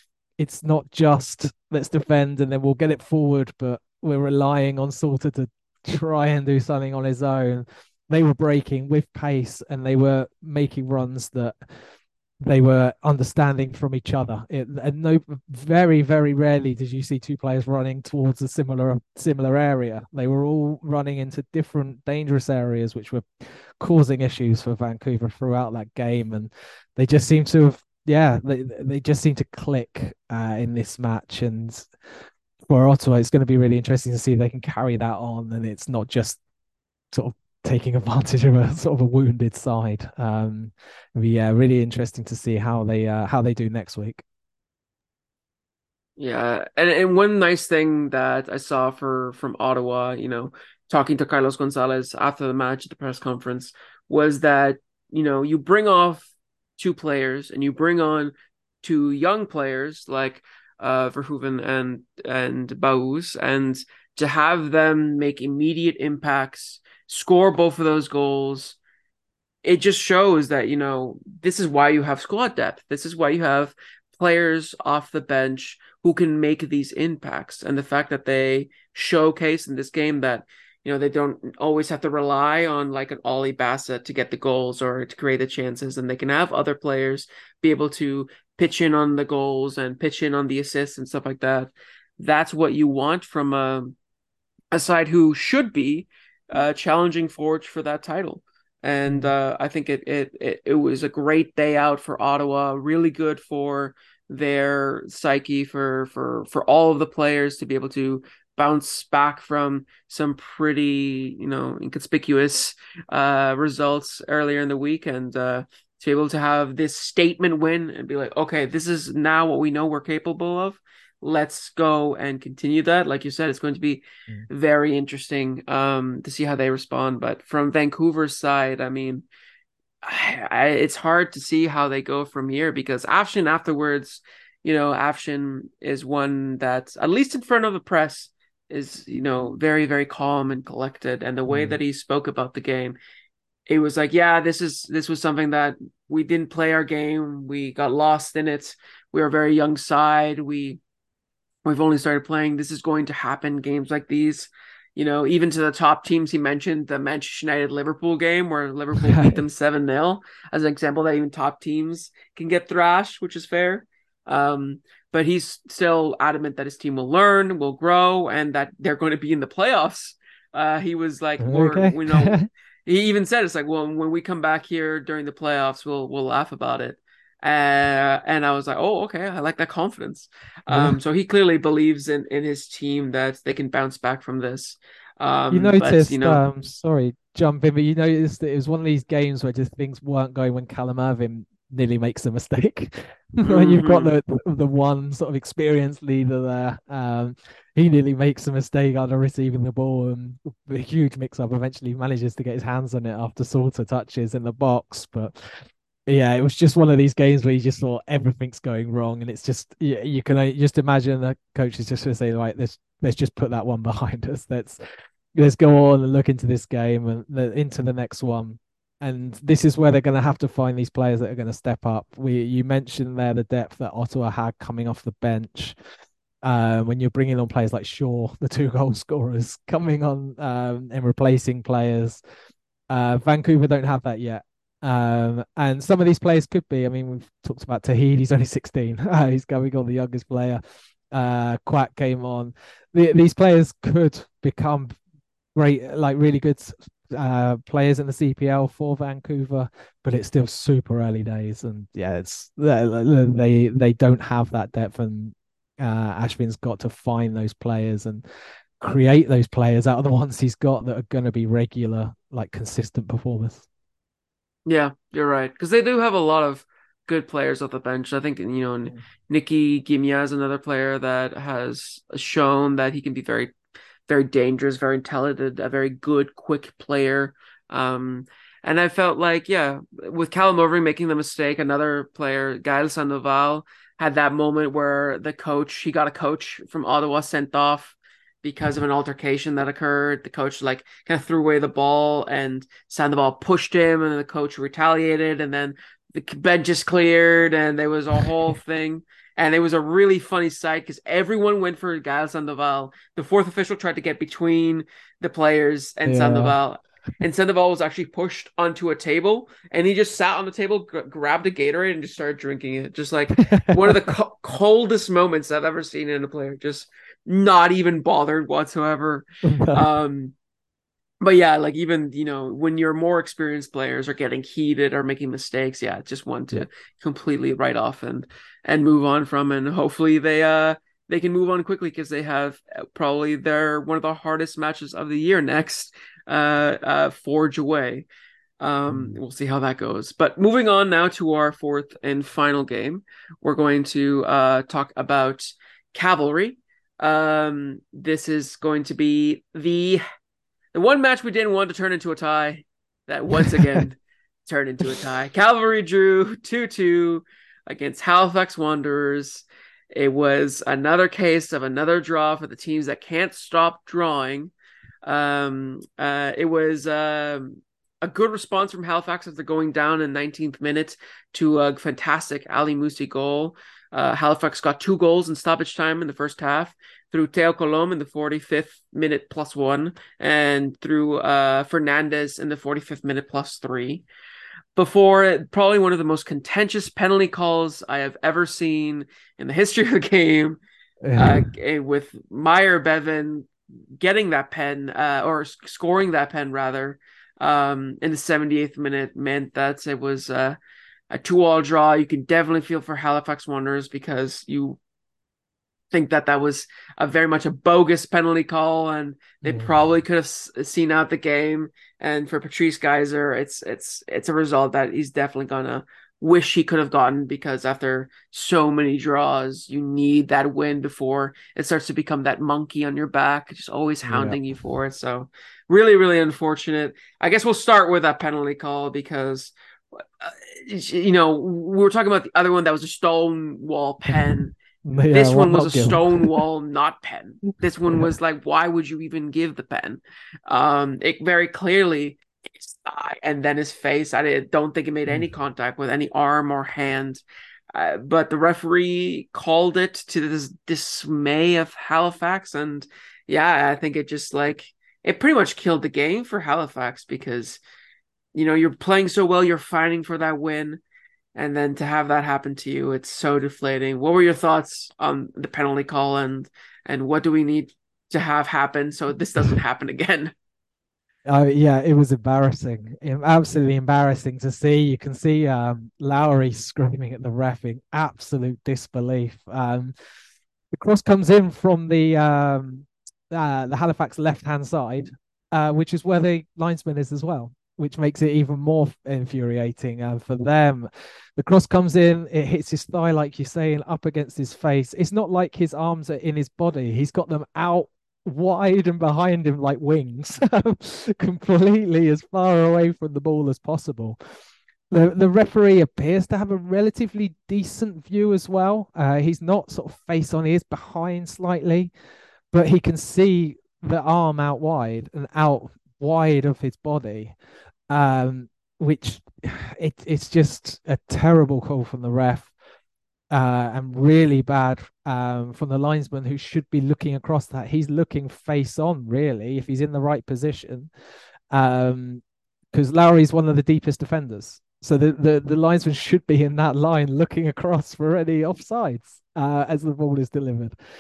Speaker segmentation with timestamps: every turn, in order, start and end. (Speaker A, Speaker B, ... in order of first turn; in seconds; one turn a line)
Speaker A: 0.4-11.7
Speaker A: 12.4-31.9
Speaker A: 32.7-36.4
Speaker A: 37.1-44.2
Speaker B: 46.2-68.8
Speaker B: 69.6-94.0
Speaker B: 94.7-129.2
Speaker A: 99.1-99.3
Speaker B: 130.0-143.0
Speaker A: 141.5-141.8
Speaker B: 143.7-150.8
Speaker B: 151.7-186.4
Speaker A: 159.0-159.4
Speaker A: 171.4-172.5
Speaker A: 180.7-181.0
Speaker A: 185.5-214.8
Speaker B: 193.4-194.1
Speaker A: 215.3-225.8
Speaker A: 226.4-232.2
Speaker A: 232.9-245.0
Speaker A: 245.6-258.2
Speaker A: 258.8-263.7
Speaker B: 264.7-273.5
Speaker B: 274.1-320.3
Speaker A: 306.1-306.6
Speaker A: 313.5-313.9
Speaker A: 319.4-319.8
Speaker B: 321.2-338.1
Speaker B: 338.6-350.0
Speaker A: 338.9-339.2
Speaker B: 350.7-364.5
Speaker A: 353.4-353.8
Speaker B: 365.1-384.1
Speaker B: 384.8-390.6
Speaker A: 391.0-391.5
Speaker B: 391.2-400.6
Speaker B: 401.1-404.8
Speaker B: 405.9-434.6
Speaker A: 409.4-409.7
Speaker A: 424.0-424.4
Speaker A: 434.9-436.4
Speaker B: 435.1-447.2
Speaker B: 447.7-457.6
Speaker B: 458.4-460.8
Speaker B: 461.4-470.3
Speaker A: 471.3-479.9
Speaker A: 480.7-504.2
Speaker A: 504.9-511.9
Speaker A: 512.5-517.4
Speaker A: 517.9-522.5
Speaker A: 523.3-530.9
Speaker A: 531.5-540.8